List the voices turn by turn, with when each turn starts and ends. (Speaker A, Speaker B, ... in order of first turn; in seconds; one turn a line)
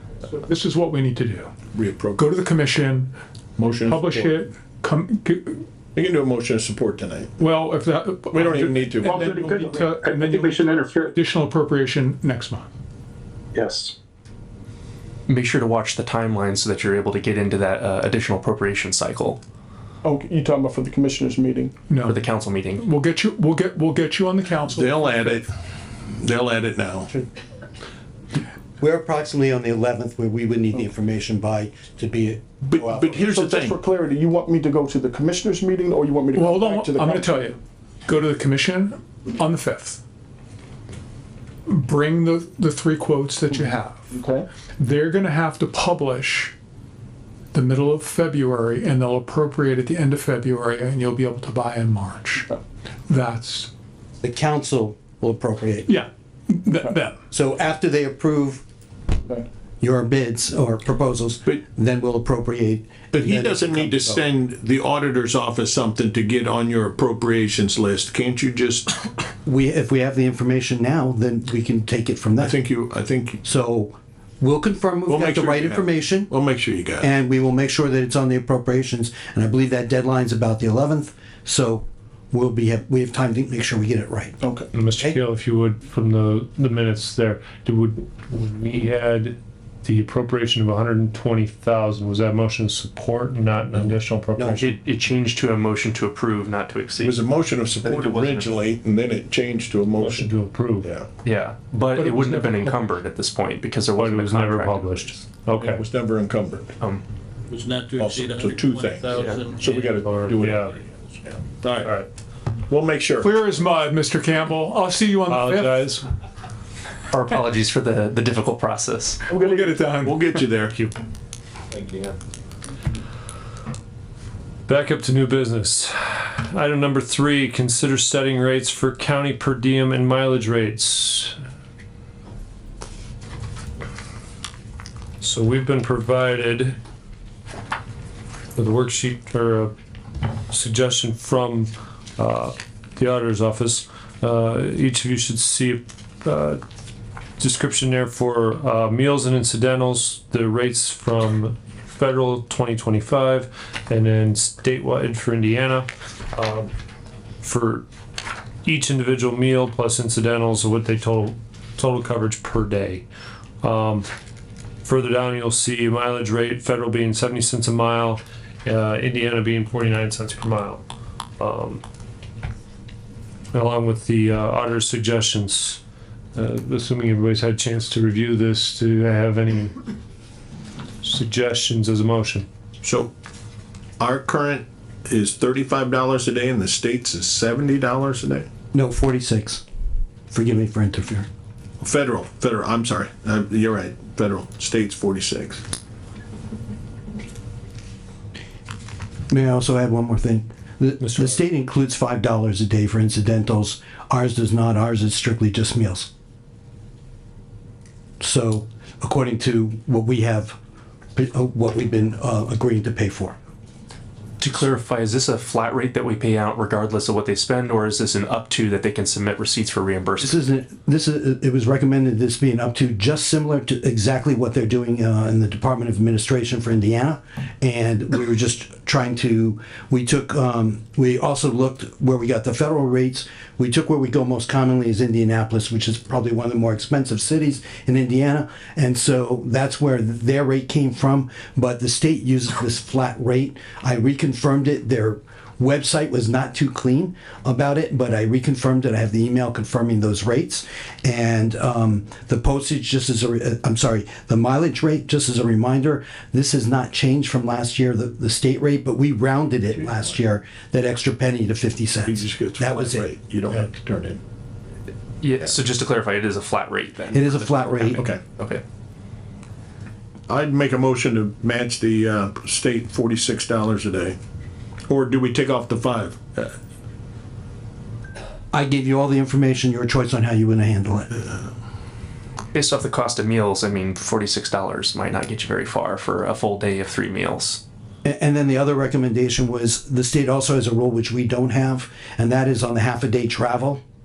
Speaker A: 0.3-1.5
Speaker B: 1.7-2.4
Speaker A: 2.2-3.1
Speaker B: 3.6-4.4
Speaker A: 3.8-5.7
Speaker B: 6.0-7.4
Speaker A: 7.4-12.7
Speaker B: 8.3-9.3
Speaker C: 9.1-11.1
Speaker D: 9.7-11.1
Speaker C: 13.6-13.9
Speaker E: 15.3-19.4
Speaker C: 20.0-21.7
Speaker A: 21.9-22.2
Speaker E: 22.0-22.9
Speaker A: 22.8-25.3
Speaker B: 24.7-25.5
Speaker B: 26.1-27.1
Speaker F: 28.8-33.2
Speaker B: 32.6-33.8
Speaker C: 33.2-37.5
Speaker A: 36.3-40.0
Speaker A: 41.7-44.2
Speaker C: 43.5-44.5
Speaker A: 44.8-46.5
Speaker A: 47.5-52.5
Speaker A: 53.1-53.7
Speaker F: 54.2-55.9
Speaker A: 55.9-57.2
Speaker F: 57.3-58.6
Speaker F: 59.8-64.2
Speaker B: 63.1-69.0
Speaker F: 69.5-72.6
Speaker B: 72.4-73.4
Speaker F: 73.4-76.3
Speaker B: 75.1-77.1
Speaker F: 77.0-84.4
Speaker C: 84.4-84.7
Speaker G: 84.7-94.7
Speaker F: 93.8-94.7
Speaker E: 94.5-97.2
Speaker B: 97.0-101.1
Speaker E: 97.8-98.6
Speaker G: 100.0-100.9
Speaker E: 101.2-105.2
Speaker G: 102.0-102.4
Speaker G: 104.0-105.8
Speaker B: 105.6-106.8
Speaker D: 107.5-110.5
Speaker B: 108.0-110.7
Speaker E: 109.1-109.4
Speaker G: 109.9-110.8
Speaker B: 111.3-112.0
Speaker G: 111.8-112.1
Speaker B: 112.7-113.3
Speaker A: 113.2-116.0
Speaker G: 115.3-116.0
Speaker E: 117.1-119.2
Speaker A: 119.3-120.1
Speaker B: 119.3-120.8
Speaker G: 120.7-120.9
Speaker D: 121.8-122.0
Speaker G: 124.7-131.4
Speaker G: 135.2-136.8
Speaker G: 138.6-139.7
Speaker G: 140.5-146.6
Speaker G: 147.4-156.7
Speaker G: 157.4-157.8
Speaker G: 158.7-163.0
Speaker G: 163.6-164.1
Speaker G: 164.8-170.8
Speaker G: 171.4-171.8
Speaker G: 173.5-175.8
Speaker G: 176.3-179.8
Speaker G: 181.0-182.5
Speaker B: 182.8-183.1
Speaker B: 184.0-188.5
Speaker F: 188.7-189.6
Speaker F: 190.3-191.3
Speaker B: 191.8-195.6
Speaker F: 199.3-206.1
Speaker G: 201.0-201.4
Speaker F: 208.2-210.6
Speaker F: 211.2-213.4
Speaker E: 214.4-220.4
Speaker F: 220.2-263.1
Speaker B: 262.1-264.2
Speaker E: 265.2-268.6
Speaker F: 267.1-268.0
Speaker B: 270.3-274.2
Speaker B: 274.9-276.5
Speaker F: 278.5-281.1
Speaker E: 282.5-287.6
Speaker F: 288.1-293.8